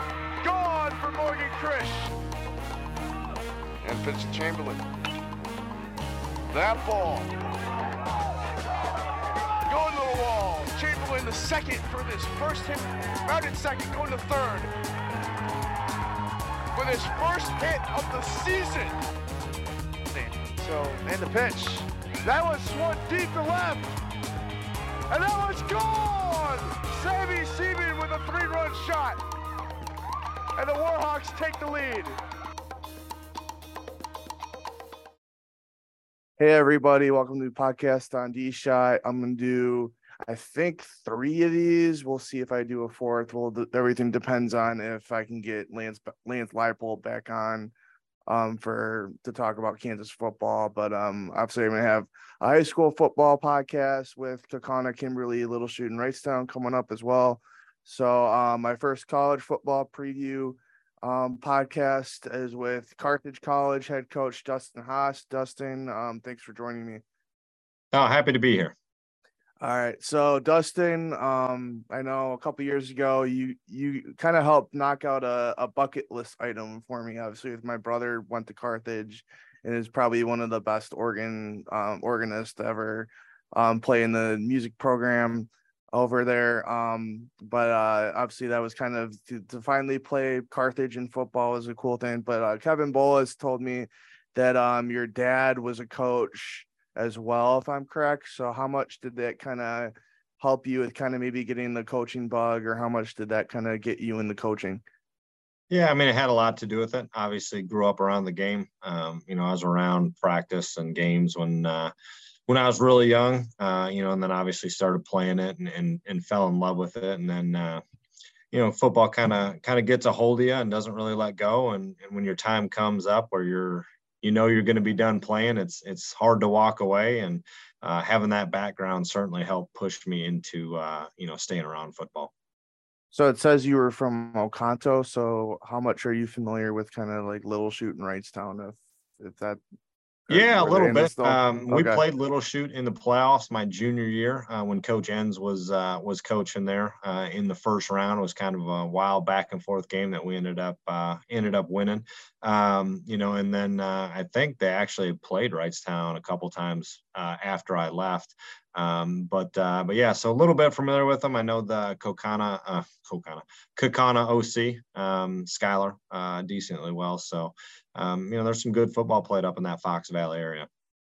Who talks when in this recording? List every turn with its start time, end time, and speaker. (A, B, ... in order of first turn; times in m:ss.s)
0:00.4-0:02.1 A
0:03.8-0:04.8 A
0:06.5-0:07.3 A
0:09.7-0:14.7 A
0:16.8-0:19.0 A
0:20.1-0:24.0 A
0:25.1-0:29.2 A
0:30.6-0:32.2 A
0:36.4-0:47.7 B
0:48.3-1:07.0 B
1:07.9-1:08.8 C
1:09.6-1:44.8 B
1:45.7-1:51.9 C
1:52.5-1:57.8 C
1:58.5-2:12.3 C
2:13.1-2:19.6 B
2:20.3-2:22.0 B
2:20.3-2:50.7 C